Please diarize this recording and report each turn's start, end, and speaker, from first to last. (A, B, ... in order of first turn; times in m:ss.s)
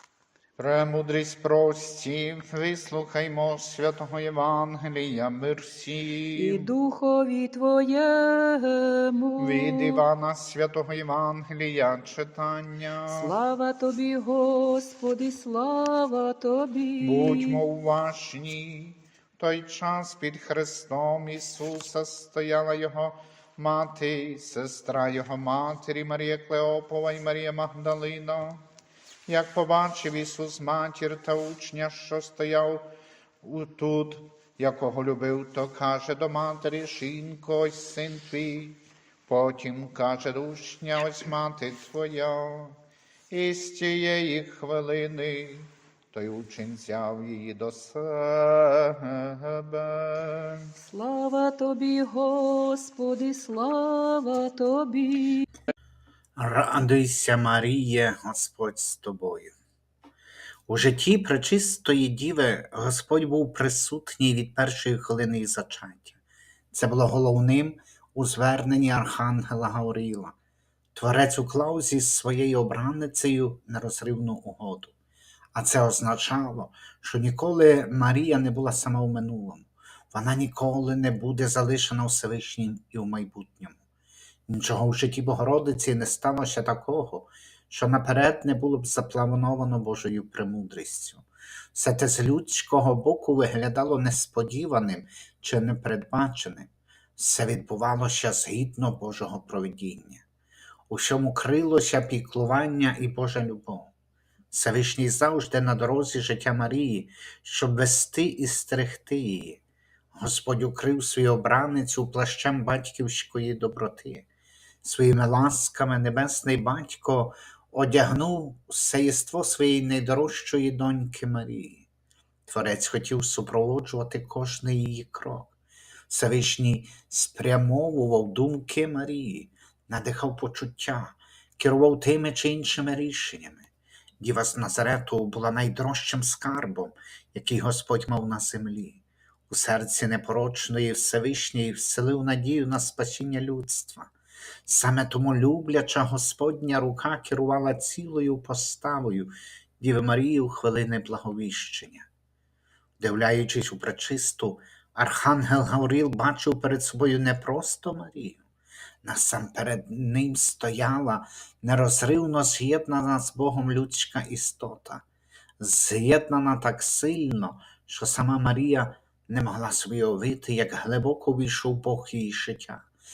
0:00.6-0:06.7 A
0:06.4-0:10.0 B
0:09.4-0:13.3 A
0:13.1-0:17.6 B
0:17.0-0:28.6 A
0:29.3-0:32.9 A
0:33.4-0:42.8 A
0:43.3-0:50.7 A
0:50.8-0:55.5 B
0:56.4-0:59.5 C
1:00.7-1:06.2 C
1:06.7-1:10.4 C
1:11.0-1:14.9 C
1:15.5-1:23.8 C
1:24.5-1:40.2 C
1:40.9-1:43.9 C
1:44.5-1:49.6 C
1:50.2-1:54.3 C
1:54.8-2:01.9 C
2:02.5-2:05.5 C
2:06.1-2:13.7 C
2:14.2-2:24.1 C
2:24.6-2:32.1 C
2:33.0-2:38.4 C
2:39.0-2:45.0 C
2:45.6-2:52.9 C